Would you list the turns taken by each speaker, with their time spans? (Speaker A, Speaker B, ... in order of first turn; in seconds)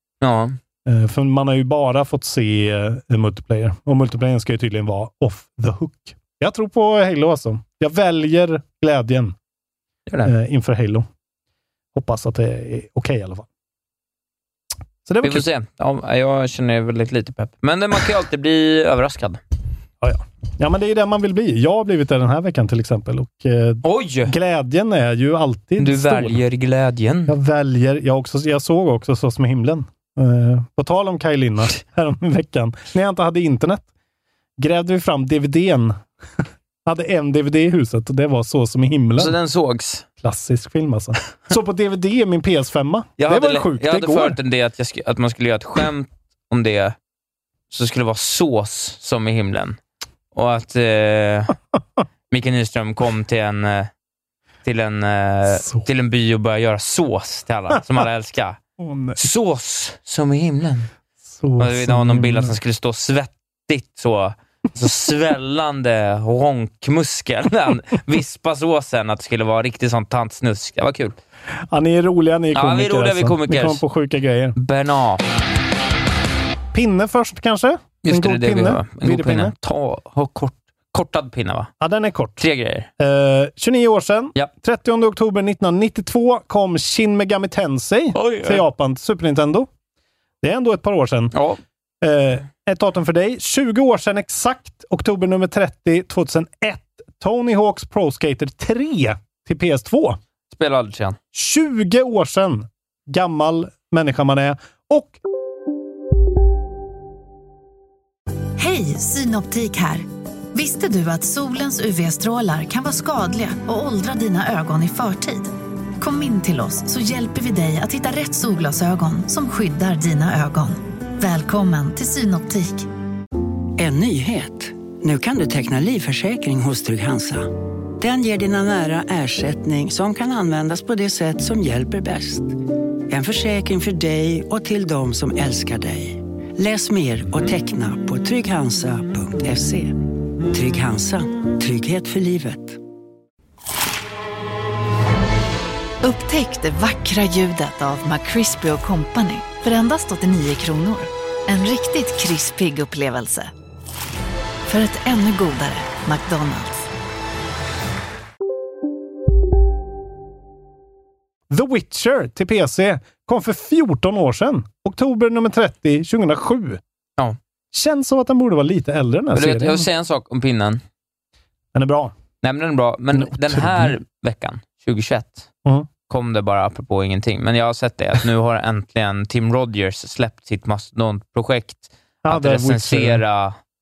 Speaker A: 0.2-0.6, 10.1-10.3, 15.2-19.4, 23.8-24.3, 25.8-27.3, 39.2-40.0, 43.2-47.0, 47.7-49.8, 50.3-51.5, 52.3-53.9, 54.6-58.6, 59.1-60.9, 61.6-71.2, 72.5-73.8, 74.6-75.2, 78.0-81.7, 82.4-82.9, 88.1-88.6, 91.3-91.6, 100.5-101.2, 169.3-170.8, 172.4-175.5, 176.1-183.6
Speaker B: 0.8-9.3, 10.2-11.1, 11.9-13.4, 15.1-15.4, 20.0-26.4, 27.3-33.9, 34.6-36.0, 36.9-39.4, 40.2-44.4, 55.5-55.8, 58.8-59.2, 61.3-62.6, 71.7-74.6, 76.7-79.5, 81.8-82.4, 83.0-89.7, 90.4-91.3, 92.0-100.2, 101.3-105.2, 161.5-166.8, 167.7-169.9, 171.7-172.1, 173.1-173.9, 182.2-183.2
Speaker C: 108.6-122.8, 146.0-153.5, 154.7-156.9
Speaker D: 123.8-132.6, 133.1-140.0, 140.5-142.8